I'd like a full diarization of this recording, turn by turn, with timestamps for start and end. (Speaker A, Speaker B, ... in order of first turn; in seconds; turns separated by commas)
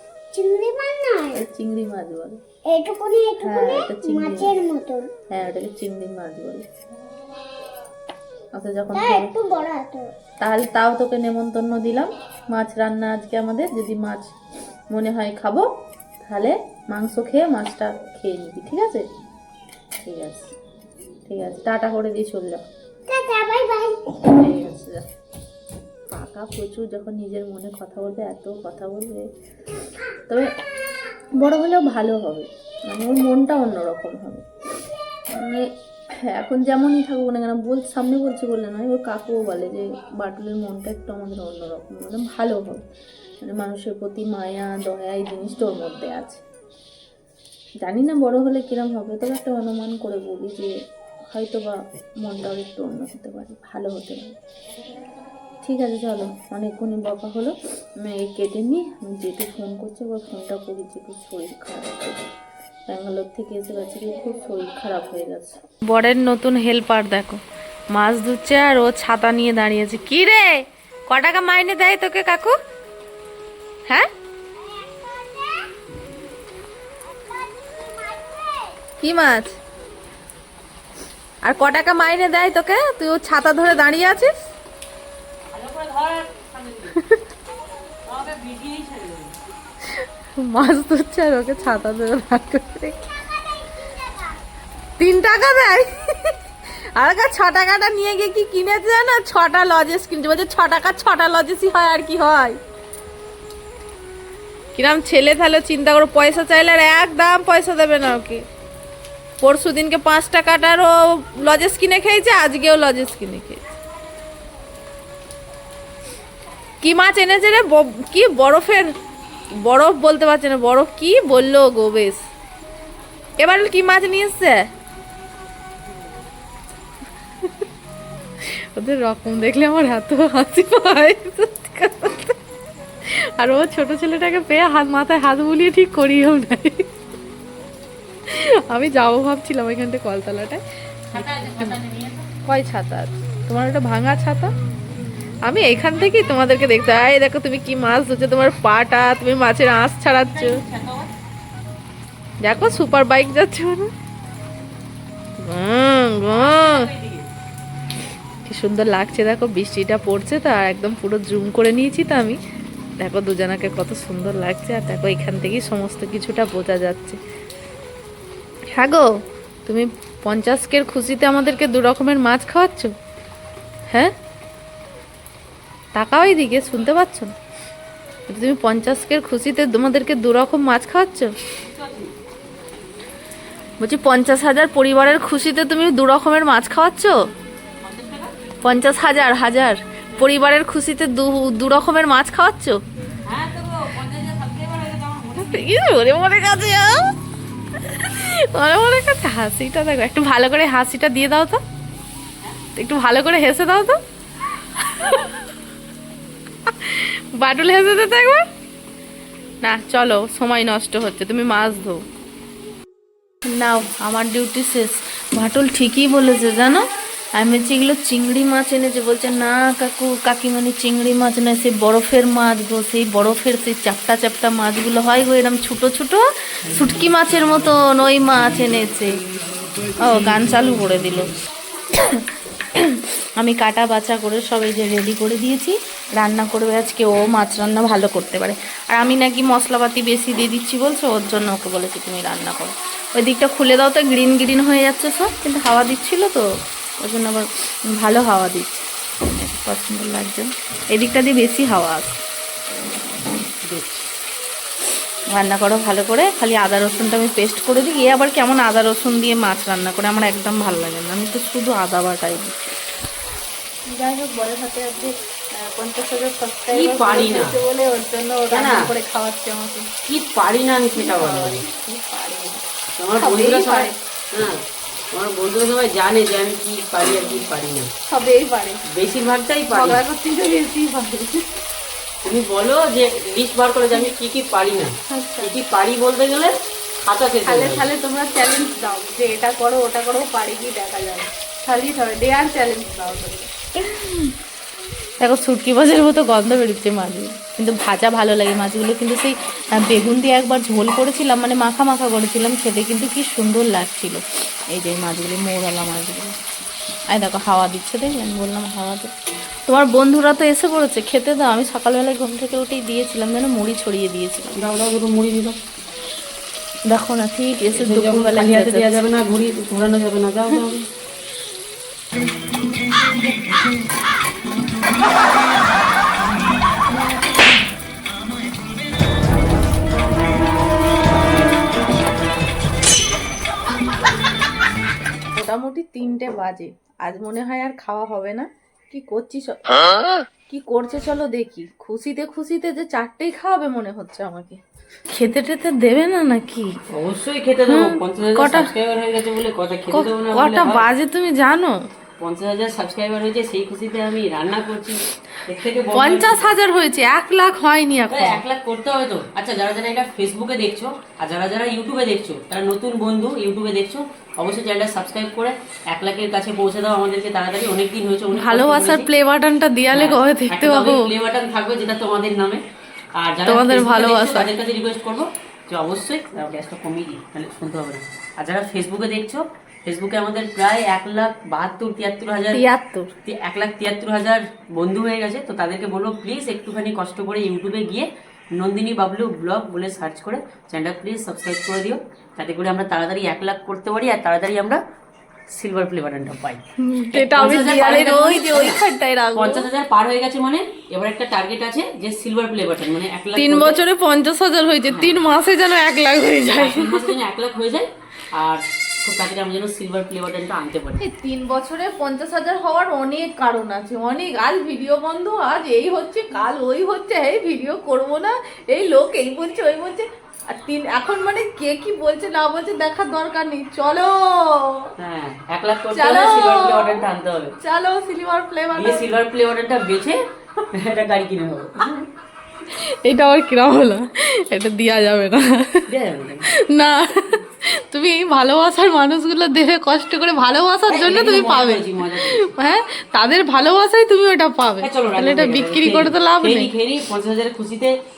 Speaker A: 0.3-1.4, Speaker B: 1.3-2.4, Speaker A: 2.7-5.1, Speaker B: 3.4-4.5, Speaker B: 5.3-6.6, Speaker B: 8.6-9.3, Speaker A: 8.9-10.1, Speaker B: 10.4-14.3, Speaker B: 14.9-15.7, Speaker B: 16.2-19.1, Speaker B: 20.0-20.5, Speaker B: 21.3-22.6, Speaker A: 23.1-24.3, Speaker B: 24.2-25.0, Speaker B: 26.1-29.3, Speaker B: 31.4-34.5, Speaker B: 35.3-42.8, Speaker B: 43.4-46.4, Speaker B: 47.8-50.7, Speaker B: 51.3-54.3, Speaker B: 55.6-62.2, Speaker B: 62.9-67.4, Speaker B: 67.9-72.6, Speaker A: 74.6-75.9, Speaker A: 77.2-78.8, Speaker B: 79.0-79.6, Speaker B: 81.4-84.3, Speaker C: 85.5-87.0, Speaker B: 87.0-87.2, Speaker C: 88.1-89.3, Speaker B: 89.9-93.0, Speaker A: 93.0-94.4, Speaker B: 95.0-96.3, Speaker B: 97.0-102.6, Speaker B: 104.8-108.4, Speaker B: 109.4-113.6, Speaker B: 116.8-119.0, Speaker B: 119.6-122.3, Speaker B: 123.4-124.7, Speaker B: 128.5-132.4, Speaker B: 133.1-136.9, Speaker B: 138.3-141.8, Speaker C: 141.1-142.3, Speaker B: 142.5-144.5, Speaker B: 145.4-150.6, Speaker C: 150.3-151.1, Speaker B: 152.4-153.9, Speaker B: 155.4-156.9, Speaker C: 156.3-157.3, Speaker B: 158.4-162.4, Speaker B: 163.0-167.2, Speaker B: 168.7-169.1, Speaker B: 169.7-172.9, Speaker B: 175.9-177.3, Speaker B: 178.3-181.3, Speaker C: 181.6-182.1, Speaker B: 183.8-187.2, Speaker C: 187.8-188.4, Speaker B: 188.6-192.8, Speaker C: 193.2-195.7, Speaker B: 195.4-197.1, Speaker B: 197.8-201.6, Speaker B: 202.8-204.0, Speaker B: 204.8-205.4, Speaker B: 206.7-208.4, Speaker B: 209.6-212.0, Speaker B: 213.5-229.2, Speaker B: 230.0-231.3, Speaker B: 232.8-246.5, Speaker B: 247.0-252.2, Speaker C: 253.7-254.0, Speaker B: 255.3-262.7, Speaker B: 263.9-269.9, Speaker C: 266.7-267.5, Speaker C: 268.5-268.9, Speaker C: 270.1-271.6, Speaker B: 271.0-272.6, Speaker C: 273.0-274.6, Speaker B: 273.2-274.0, Speaker C: 275.1-277.9, Speaker B: 278.1-278.8, Speaker C: 278.9-280.0, Speaker B: 279.7-281.5, Speaker C: 282.2-287.8, Speaker B: 285.1-285.5, Speaker B: 287.4-294.2, Speaker B: 295.2-306.4, Speaker B: 307.1-309.1, Speaker B: 309.7-314.6, Speaker C: 314.6-315.6, Speaker B: 316.9-319.0, Speaker C: 317.8-320.9, Speaker B: 335.3-339.8, Speaker B: 340.5-344.6, Speaker B: 345.1-346.7, Speaker C: 346.9-350.9, Speaker B: 347.7-348.7, Speaker B: 349.9-351.9, Speaker C: 352.2-356.5, Speaker B: 355.9-358.4, Speaker C: 358.1-369.1, Speaker B: 368.3-371.1, Speaker C: 369.9-372.6, Speaker C: 373.2-382.6, Speaker B: 373.5-374.5, Speaker B: 382.5-383.1, Speaker C: 383.2-394.8, Speaker C: 395.5-398.8, Speaker B: 396.8-399.7, Speaker C: 399.4-403.8, Speaker B: 403.4-407.1, Speaker C: 404.9-405.2, Speaker C: 406.6-411.0, Speaker B: 411.0-424.9, Speaker C: 425.0-427.6, Speaker B: 425.9-427.0, Speaker B: 427.6-429.1, Speaker C: 428.8-430.2, Speaker C: 430.7-432.1, Speaker B: 432.7-435.9, Speaker C: 435.9-436.4, Speaker B: 436.5-446.7, Speaker C: 440.9-442.4, Speaker C: 444.8-447.9